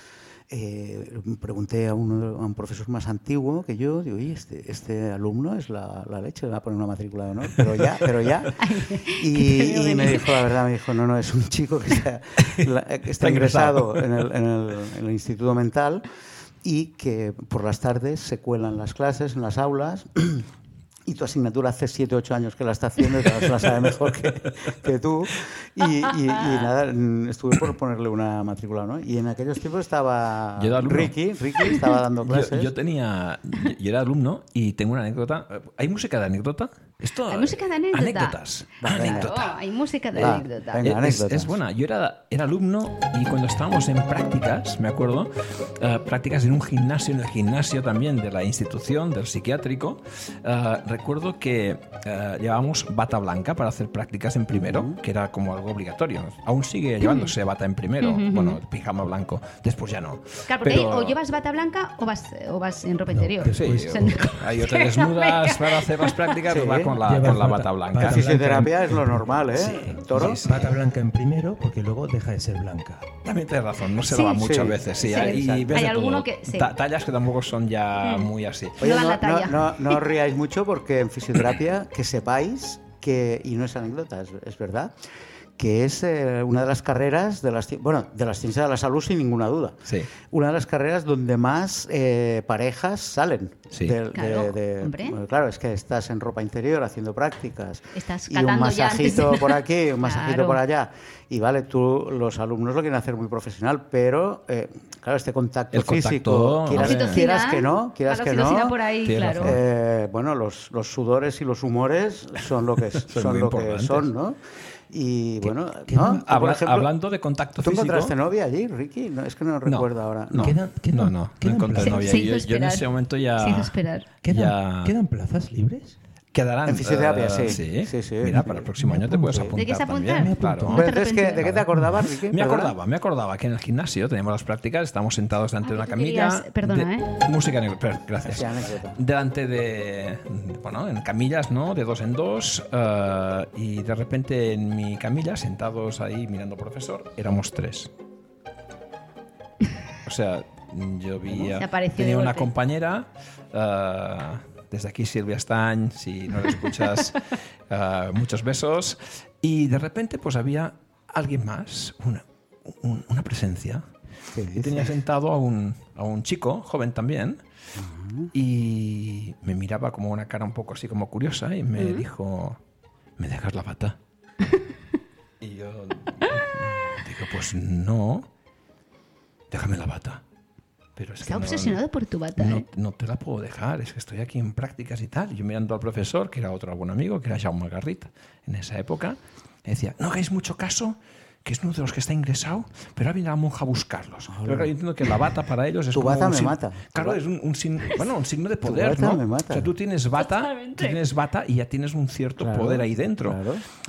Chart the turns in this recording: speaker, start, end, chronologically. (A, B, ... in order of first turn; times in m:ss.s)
0:00.5-0:16.0 A
0:08.6-0:10.4 B
0:13.2-0:14.1 C
0:16.6-0:20.5 A
0:21.1-0:32.7 A
0:30.6-0:31.2 C
0:32.2-0:39.6 C
0:37.3-0:38.4 B
0:38.8-0:39.3 A
0:39.0-0:40.8 B
0:40.2-0:41.6 A
0:40.2-1:01.2 C
0:54.5-0:55.0 A
0:57.0-0:57.3 B
0:58.0-0:58.6 B
1:00.5-1:06.4 B
1:03.1-1:04.2 D
1:03.4-1:08.6 C
1:06.5-1:07.0 A
1:07.0-1:13.1 D
1:08.0-1:10.4 A
1:09.6-1:10.8 C
1:13.2-1:18.8 C
1:14.1-1:16.7 B
1:14.4-1:15.8 A
1:18.0-1:18.3 B
1:18.8-1:20.0 B
1:18.8-1:24.9 A
1:25.6-1:48.8 A
1:34.1-1:35.2 B
1:38.0-1:40.6 B
1:45.7-1:47.2 C
1:46.8-1:49.6 B
1:49.0-1:49.6 C
1:49.4-1:54.4 A
1:53.0-1:54.1 C
1:54.9-1:56.9 A
1:55.4-1:56.2 D
1:56.1-1:58.1 C
1:57.6-2:00.6 A
1:59.7-2:05.0 C
2:00.4-2:02.2 D
2:01.8-2:02.9 B
2:03.4-2:04.1 B
2:04.2-2:06.0 D
2:06.3-2:10.9 C
2:06.7-2:08.7 A
2:08.8-2:09.6 D
2:09.6-2:11.5 B
2:10.1-2:10.9 D
2:10.7-2:12.8 A
2:11.7-2:12.0 D
2:12.3-2:27.9 C
2:15.6-2:17.1 B
2:18.2-2:19.0 A
2:30.0-2:43.8 C
2:31.5-2:32.5 B
2:44.3-2:45.0 A
2:44.5-2:47.4 C
2:47.8-2:48.3 A
2:48.3-2:52.6 C
2:51.8-2:52.0 B
2:53.2-2:54.0 C
2:55.4-2:58.3 C
2:59.5-3:00.2 C
3:01.0-3:01.8 C
3:01.2-3:02.6 B
3:02.4-3:23.4 C
3:14.3-3:14.7 A
3:15.9-3:17.2 A
3:18.6-3:19.7 A
3:20.2-3:21.0 B
3:22.4-3:23.6 A